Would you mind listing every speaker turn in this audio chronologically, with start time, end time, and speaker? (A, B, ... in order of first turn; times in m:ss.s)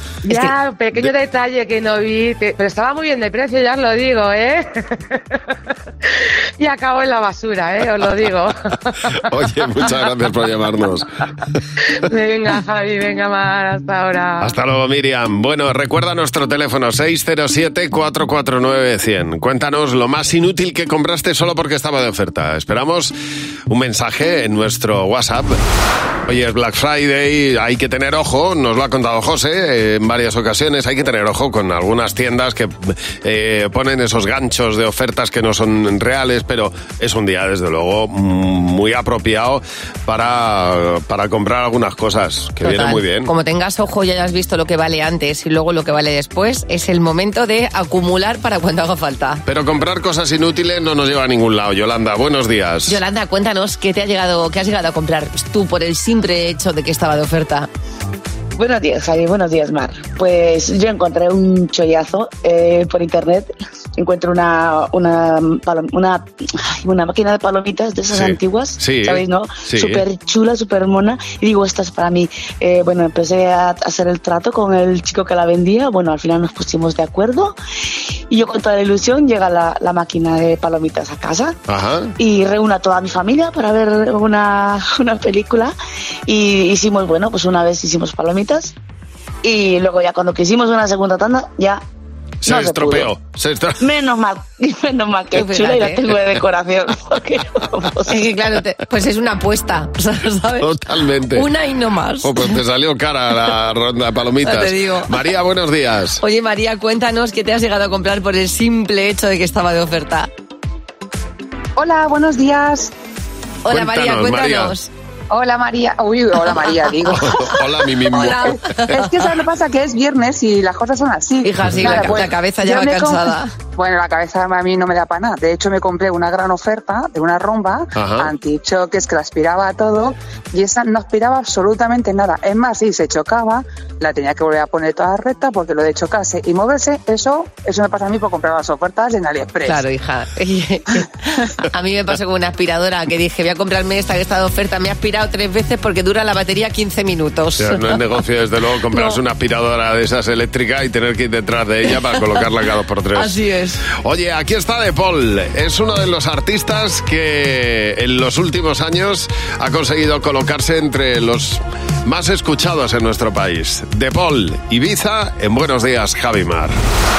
0:00.3-0:05.4 A
0:00.3-0:00.5 B
0:06.6-0:09.1 A
0:09.3-0:11.1 C
0:11.9-0:14.6 A
0:14.4-0:23.1 C
0:23.7-0:25.6 C
0:26.3-0:43.3 C
0:42.6-0:49.4 B
0:49.5-0:53.0 C
0:52.9-0:57.7 B
0:58.6-1:17.6 D
1:08.1-1:10.0 C
1:18.3-1:21.6 D
1:21.7-1:22.1 C
1:22.2-1:25.8 D
1:26.3-1:28.7 D
1:29.4-1:31.8 D
1:32.4-1:33.8 C
1:32.5-1:33.1 D
1:33.8-1:38.2 D
1:35.3-1:36.1 B
1:38.1-1:40.7 B
1:40.6-1:41.5 C
1:41.3-1:42.5 B
1:42.2-1:46.2 C
1:44.4-1:45.1 B
1:46.2-1:50.3 B
1:51.8-1:52.9 E
1:53.6-1:54.9 B
1:53.7-1:54.7 C
1:55.3-1:57.4 E
1:57.1-1:58.6 C
1:58.1-1:59.0 B
1:58.9-2:19.8 E
2:01.4-2:03.5 B
2:07.9-2:08.3 C
2:19.6-2:27.9 B
2:27.6-2:33.4 C
2:28.9-2:29.2 B
2:33.2-2:33.8 B
2:34.0-2:46.8 C